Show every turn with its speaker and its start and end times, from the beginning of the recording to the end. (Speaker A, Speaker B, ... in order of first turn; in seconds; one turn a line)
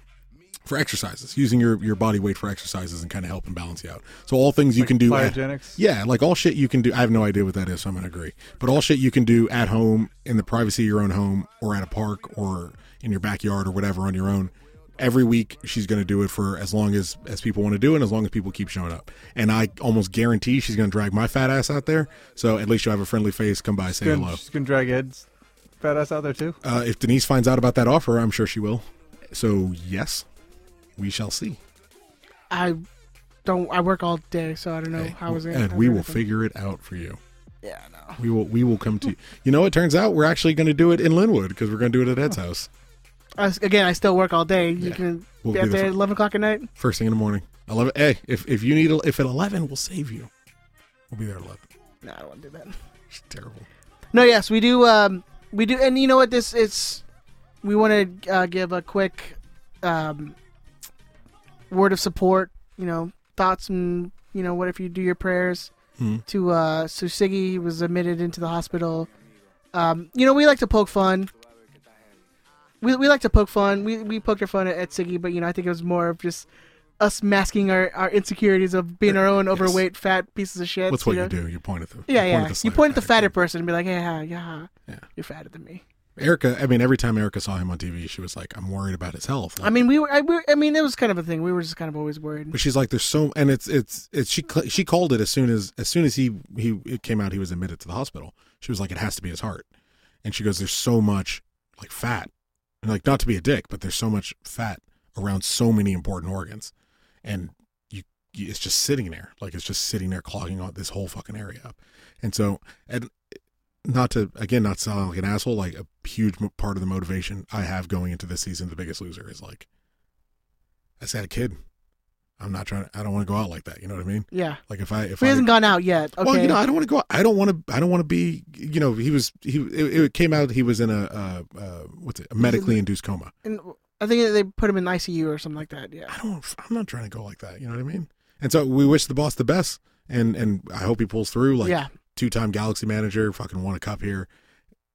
Speaker A: 0.7-24.4
Speaker B: 4.8-5.8
Speaker B: 23.9-25.3
Speaker B: 25.8-26.6
Speaker A: 26.6-30.3
Speaker A: 31.0-31.6
Speaker C: 32.5-32.8
Speaker C: 33.5-36.2
Speaker A: 34.9-37.2
Speaker C: 37.6-38.2
Speaker A: 38.2-42.7
Speaker C: 43.4-46.7
Speaker A: 44.8-46.0
Speaker A: 46.8-50.3
Speaker A: 51.1-51.6
Speaker C: 52.0-52.7
Speaker A: 53.1-53.7
Speaker C: 54.1-57.0
Speaker C: 57.6-60.4
Speaker C: 61.7-65.7
Speaker A: 66.0-66.2
Speaker C: 66.3-69.1
Speaker C: 69.7-71.3
Speaker C: 72.8-76.5
Speaker C: 77.0-81.3
Speaker A: 79.1-79.8
Speaker A: 80.9-83.3
Speaker C: 82.1-85.8
Speaker A: 86.2-89.8
Speaker C: 89.6-92.5
Speaker A: 92.5-99.7
Speaker A: 100.2-102.3
Speaker A: 102.8-106.7
Speaker A: 107.2-113.2
Speaker A: 113.8-119.7
Speaker A: 121.0-121.6
Speaker A: 122.4-125.5
Speaker C: 124.3-124.6
Speaker C: 125.2-126.6
Speaker A: 126.2-133.3
Speaker C: 132.4-132.8
Speaker C: 133.4-136.2
Speaker A: 136.1-144.3
Speaker C: 141.6-141.9